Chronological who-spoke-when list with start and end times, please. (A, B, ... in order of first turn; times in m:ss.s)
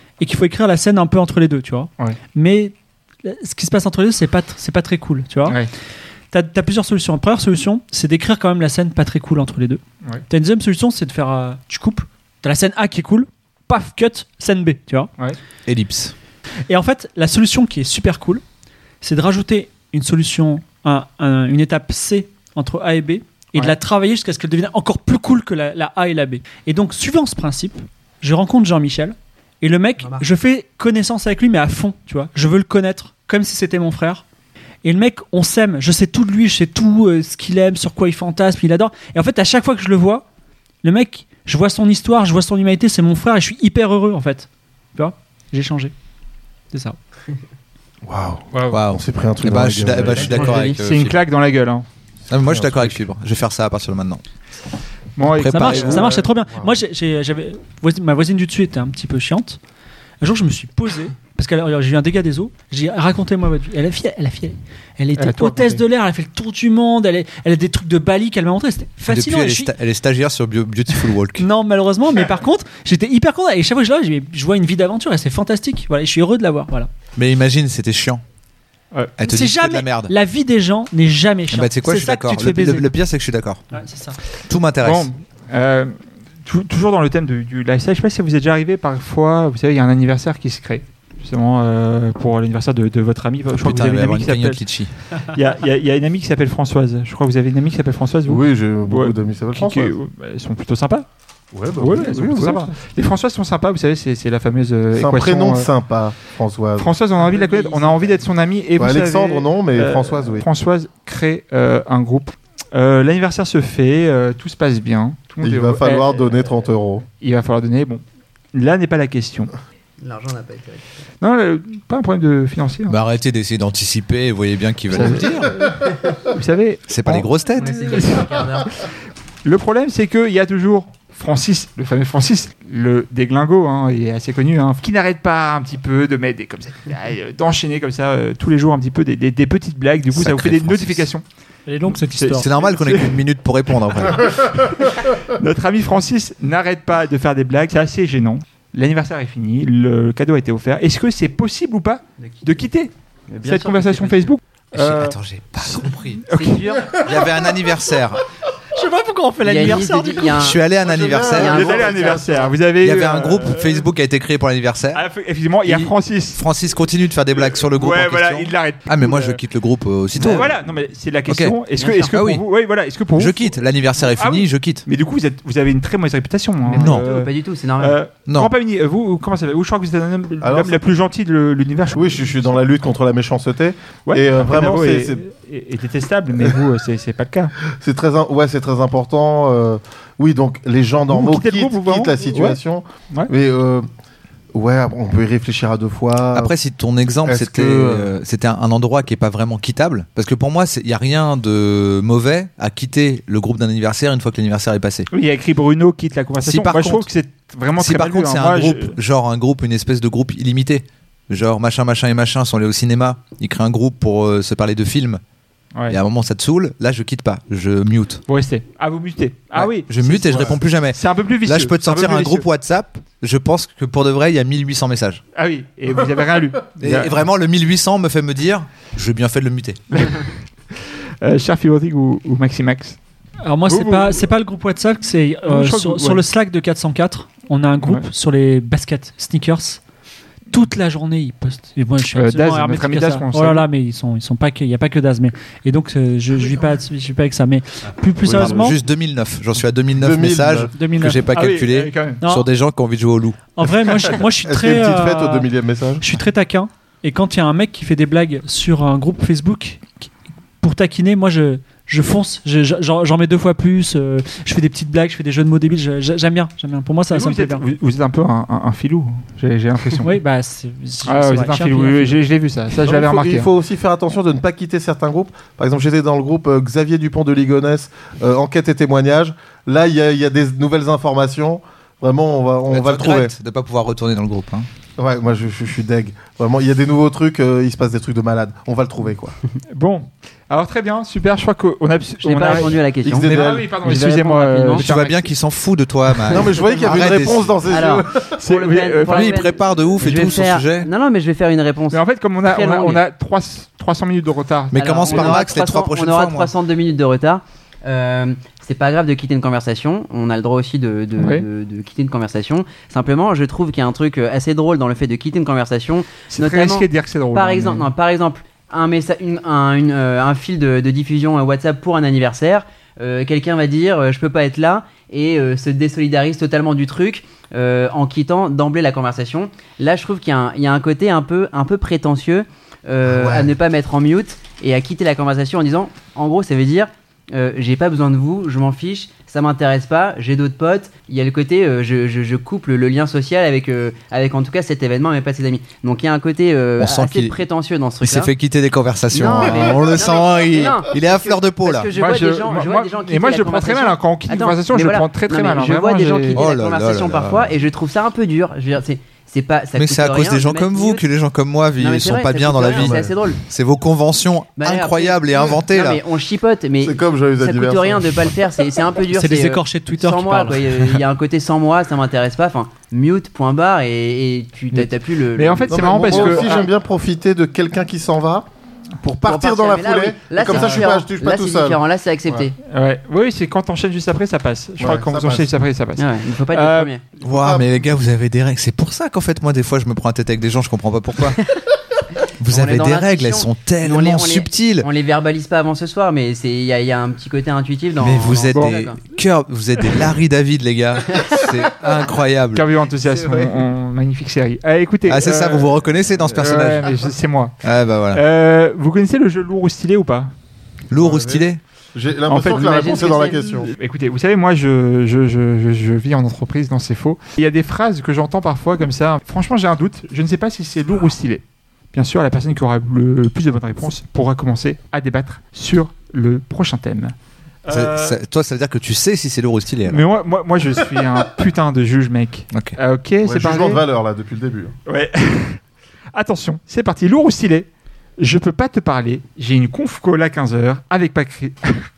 0:00.2-0:05.6 A
0:06.3-0:15.1 A
0:15.7-0:16.1 B
0:16.7-0:18.4 A
0:19.0-0:34.2 A
0:34.8-0:40.2 A
0:40.8-0:45.9 A
0:46.7-0:47.0 A
0:48.1-0:50.6 C
0:48.5-0:48.8 D
0:48.7-0:51.2 B
0:50.1-0:50.8 E
0:50.6-0:51.9 D
0:52.3-0:54.2 B
0:52.5-0:52.9 C
0:55.2-0:56.3 D
0:55.2-0:56.1 B
0:55.5-0:59.6 A
1:00.2-1:09.7 A
1:05.2-1:05.8 D
1:09.0-1:11.4 B
1:11.4-1:16.9 A
1:17.2-1:18.2 B
1:19.2-1:20.1 B
1:19.2-1:22.9 A
1:21.5-1:23.6 B
1:23.7-1:24.2 A
1:24.5-1:25.1 B
1:24.8-1:25.9 D
1:26.4-1:41.0 D
1:33.6-1:34.9 B
1:38.3-1:39.9 C
1:41.5-1:42.6 C
1:41.8-1:45.7 D
1:45.0-1:47.0 C
1:46.8-1:56.2 D
1:47.2-1:48.2 E
1:48.8-1:50.4 C
1:55.4-1:57.0 C
1:57.2-1:58.0 D
1:58.5-1:59.5 D
2:00.0-2:01.0 E
2:01.2-2:03.0 D
2:02.9-2:05.6 B
2:04.9-2:08.7 D
2:06.9-2:07.8 B
2:07.6-2:08.7 E
2:09.4-2:21.2 D
2:20.1-2:21.1 B
2:21.7-2:22.5 A
2:21.9-2:23.2 D
2:22.3-2:24.5 B
2:24.1-2:32.9 D
2:32.2-2:32.5 E
2:33.3-2:34.3 E
2:33.4-2:37.0 D
2:34.7-2:36.2 B
2:36.3-2:37.0 E
2:37.0-2:38.2 B
2:38.7-2:40.4 A
2:39.4-2:40.6 E
2:40.3-2:41.6 B
2:40.6-2:42.5 C
2:41.2-2:42.5 E
2:41.3-2:43.9 D
2:42.8-2:45.0 B
2:44.9-2:46.4 D
2:45.6-2:50.5 B
2:47.3-2:49.4 D
2:50.1-3:02.6 D
2:51.3-2:52.4 B
2:51.8-2:52.1 E
2:53.2-2:54.8 B
2:56.6-2:58.0 E
2:56.7-2:57.1 B
2:58.3-2:58.5 B
3:00.4-3:00.8 C
3:01.9-3:05.2 C
3:04.1-3:07.5 D
3:07.8-3:13.9 C
3:11.1-3:12.6 D
3:14.5-3:16.5 C
3:16.3-3:25.1 B
3:17.2-3:18.1 C
3:25.1-3:29.0 D
3:26.4-3:27.1 B
3:27.8-3:35.2 B
3:35.9-3:38.2 B
3:38.3-3:42.5 D
3:39.5-3:45.2 B
3:40.1-3:40.6 C
3:45.3-3:47.2 D
3:46.8-3:50.0 B
3:49.9-3:53.0 D
3:53.4-3:59.8 A
3:53.7-3:54.3 D
3:55.5-3:56.2 D
4:00.5-4:08.8 A
4:02.1-4:03.6 D
4:08.2-4:08.7 C
4:08.2-4:13.4 B
4:10.0-4:10.7 C
4:10.7-4:11.3 A
4:11.3-4:12.2 D
4:12.2-4:12.5 A
4:13.6-4:15.5 A
4:14.2-4:16.0 C
4:16.0-4:20.1 A
4:20.6-4:27.6 A
4:27.1-4:30.1 D
4:30.0-4:32.2 A
4:31.0-4:33.5 D
4:32.8-4:43.3 C
4:42.7-4:44.7 B
4:45.0-4:49.4 C
4:49.7-4:55.2 D
4:52.2-4:54.9 E
4:53.0-4:53.8 C
4:54.7-4:57.6 B
4:56.3-4:58.4 C
4:56.3-5:03.0 E
4:58.4-4:59.4 D
4:59.1-5:00.9 B
5:01.9-5:05.4 D
5:04.7-5:06.5 B
5:04.7-5:48.3 E
5:11.2-5:11.4 D
5:16.3-5:17.9 D
5:33.0-5:33.5 C
5:46.8-5:47.4 B
5:48.0-5:51.9 B
5:49.1-6:01.0 E
5:49.5-5:49.8 C
5:51.9-5:56.4 D
5:56.3-5:57.5 B
5:59.7-6:06.0 B
6:01.8-6:03.4 E
6:02.7-6:03.1 C
6:04.6-6:16.6 E
6:06.8-6:08.3 C
6:09.1-6:11.0 A
6:14.7-6:16.7 D
6:15.7-6:18.5 C
6:19.0-6:22.5 C
6:19.2-6:22.6 E
6:22.7-6:26.9 D
6:24.8-6:25.5 C
6:26.0-6:27.0 E
6:27.2-6:31.4 B
6:27.2-6:27.7 C
6:32.4-6:34.9 B
6:32.5-6:39.0 E
6:38.0-6:42.6 B
6:41.1-6:41.4 E
6:42.5-6:45.8 D
6:45.0-6:46.9 B
6:46.3-6:47.6 D
6:47.6-6:48.2 B
6:48.1-6:50.3 D
6:50.9-6:51.6 B
6:50.9-6:53.7 C
6:52.3-7:07.1 D
6:52.4-6:53.4 E
7:07.6-7:08.2 D
7:07.7-7:10.0 B
7:09.9-7:13.8 D
7:12.5-7:12.8 B
7:13.2-7:14.7 C
7:14.9-7:15.6 D
7:16.1-7:21.9 D